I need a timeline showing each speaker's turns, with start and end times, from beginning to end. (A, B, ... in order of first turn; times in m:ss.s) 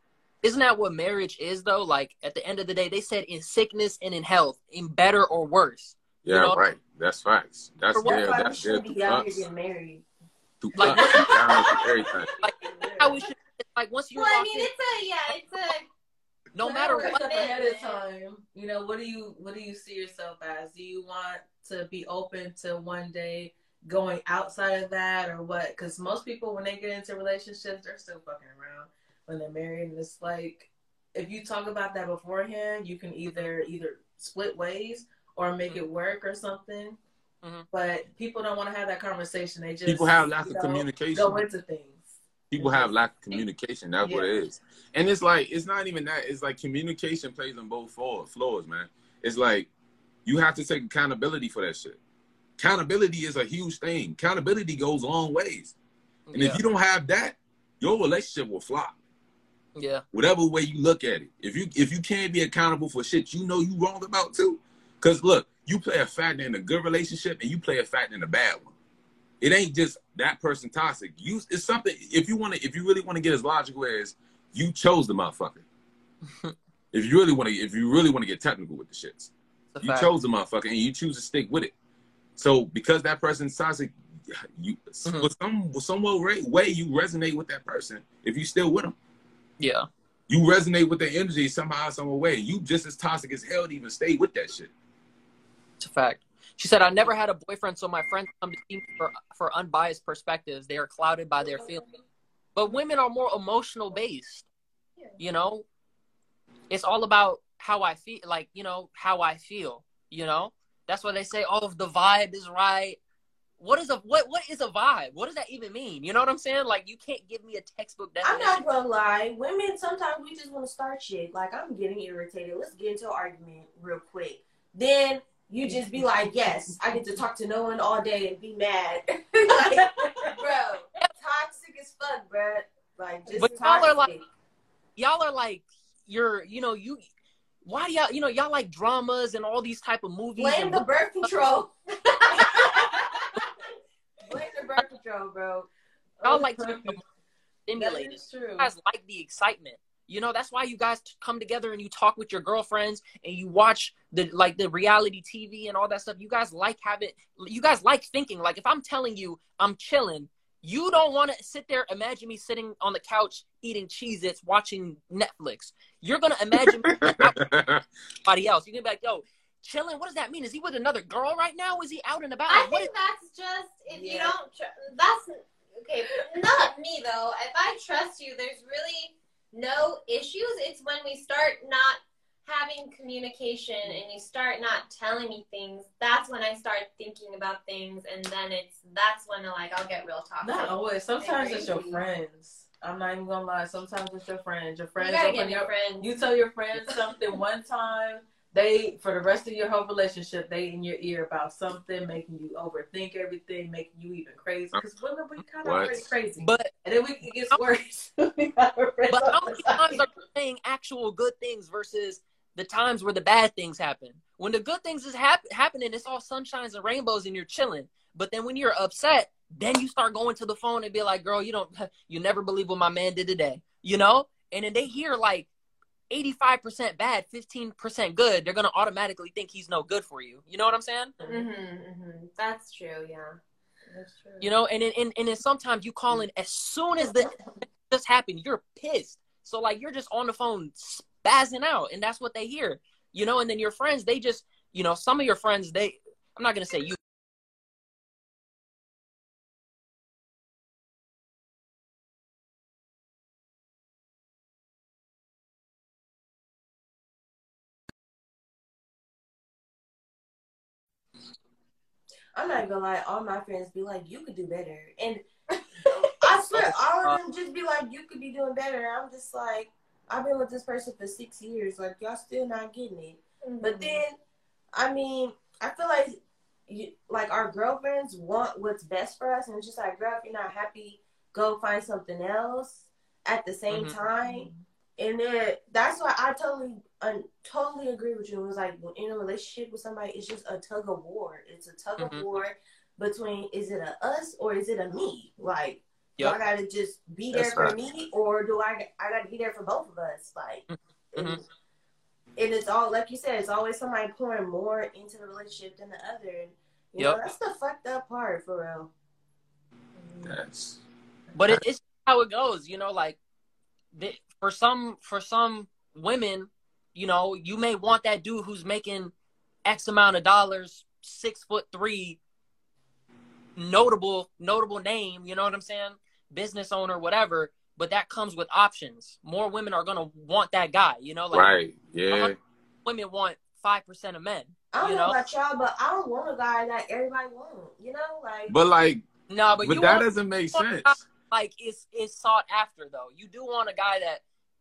0:00.4-0:06.6 A
0:06.2-0:09.4 B
0:08.0-0:08.3 A
0:08.0-0:10.0 C
0:10.6-0:12.3 B
0:10.8-0:11.4 A
0:10.9-0:11.6 D
0:12.4-0:14.7 A
0:12.6-0:13.2 E
0:14.2-0:15.9 D
0:16.5-0:17.4 A
0:16.6-0:18.0 D
0:16.6-0:37.0 E
0:33.3-0:33.5 A
0:37.7-0:42.0 E
0:39.9-0:41.5 B
0:42.5-0:49.7 B
0:42.6-0:43.4 E
0:44.0-0:44.6 E
0:50.3-0:52.0 B
0:52.6-0:55.8 B
0:56.3-0:56.6 A
0:56.3-0:59.0 B
0:59.8-1:00.0 A
1:00.1-1:08.7 B
1:09.4-1:15.6 B
1:16.9-1:19.3 B
1:19.7-1:20.1 A
1:19.8-1:21.7 B
1:22.4-1:29.0 B
1:25.0-1:25.3 A
1:29.6-1:29.9 A
1:30.3-1:34.7 B
1:35.8-1:41.8 A
1:42.6-1:44.5 A
1:45.2-1:45.7 A
1:46.7-1:53.0 A
1:53.6-1:58.6 A
1:58.2-2:14.2 C
2:13.3-2:14.2 A
2:15.0-2:17.0 A
2:17.6-2:21.3 A
2:20.4-2:23.0 C
2:24.2-2:25.7 C
2:26.2-2:27.0 E
2:26.2-2:27.0 A
2:27.7-2:47.5 A
2:27.8-2:28.7 E
2:46.8-2:47.8 B
2:48.2-2:52.9 A
2:52.5-3:12.0 D
3:10.4-3:30.0 E
3:15.0-3:16.1 D
3:25.6-3:26.1 B
3:26.4-3:26.7 A
3:29.1-3:45.5 A
3:46.1-3:51.1 A
3:51.2-3:53.4 D
3:54.4-4:07.0 A
4:22.3-4:25.2 C
4:26.0-4:34.2 C
4:26.6-4:27.2 A
4:33.4-4:34.0 D
4:34.7-5:01.4 C
4:43.7-4:44.0 A
4:52.0-4:52.3 A
4:57.3-4:57.8 B
5:00.7-5:01.4 A
5:02.4-5:08.9 C
5:10.2-5:10.8 B
5:11.3-5:13.2 A
5:13.9-5:19.1 A
5:19.6-5:22.2 A
5:23.6-5:31.5 A
5:31.3-5:32.4 B
5:32.1-5:32.3 A
5:32.8-5:35.2 A
5:34.7-5:38.6 C
5:38.5-5:39.1 B
5:39.3-5:44.2 A
5:39.6-5:41.1 B